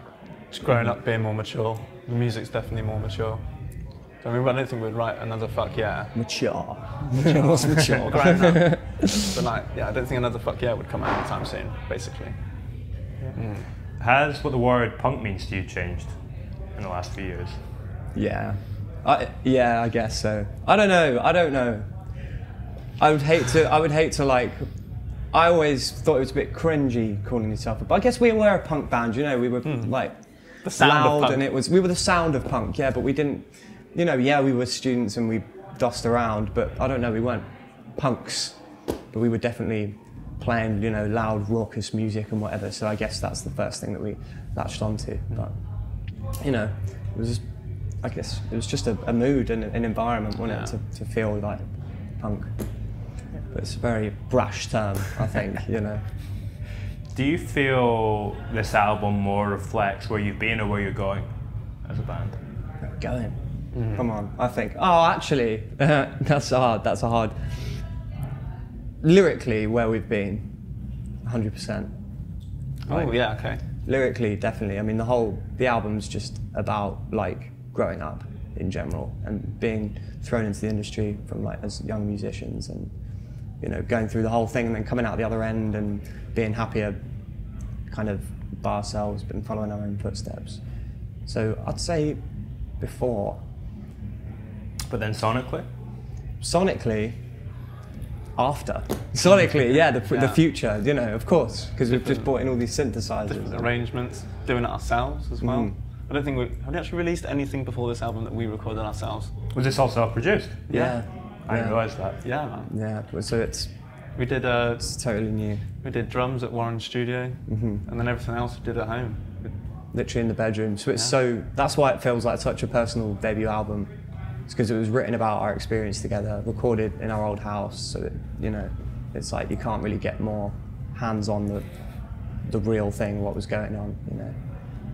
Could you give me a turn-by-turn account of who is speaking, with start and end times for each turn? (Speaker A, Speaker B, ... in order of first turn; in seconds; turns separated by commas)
Speaker A: 0.5-3.4, Speaker B: 0.7-0.9, Speaker A: 4.2-6.1, Speaker B: 6.1-9.1, Speaker A: 7.1-12.3, Speaker A: 13.3-13.7, Speaker C: 14.0-16.1, Speaker C: 16.8-17.6, Speaker B: 18.1-21.9, Speaker B: 23.0-24.6, Speaker B: 25.3-30.2, Speaker A: 29.6-29.9, Speaker A: 30.6-31.4, Speaker B: 30.8-37.4, Speaker B: 38.0-38.6, Speaker B: 39.1-45.5, Speaker B: 46.4-47.4, Speaker B: 48.0-51.6, Speaker A: 50.5-50.7, Speaker B: 52.2-52.5, Speaker B: 53.5-56.0, Speaker C: 57.1-61.3, Speaker C: 61.8-62.4, Speaker B: 62.8-63.4, Speaker A: 63.7-64.1, Speaker B: 63.9-67.3, Speaker B: 69.0-70.5, Speaker B: 71.2-71.9, Speaker A: 72.9-73.6, Speaker B: 72.9-73.2, Speaker B: 73.8-82.9, Speaker B: 83.6-87.0, Speaker B: 87.9-90.6, Speaker B: 91.2-92.2, Speaker B: 92.8-93.4, Speaker C: 94.9-95.7, Speaker B: 96.4-97.2, Speaker B: 98.3-103.7, Speaker A: 99.5-100.4, Speaker A: 101.9-102.3, Speaker A: 103.3-109.3, Speaker B: 105.4-105.8, Speaker C: 109.5-110.7, Speaker A: 110.7-111.0, Speaker B: 110.7-111.8, Speaker C: 111.5-112.2, Speaker A: 112.2-112.7, Speaker B: 112.7-113.7, Speaker A: 114.2-115.0, Speaker B: 114.8-115.6, Speaker A: 115.8-119.5, Speaker B: 117.5-117.8, Speaker B: 119.9-123.9, Speaker B: 124.5-131.7, Speaker B: 132.4-134.3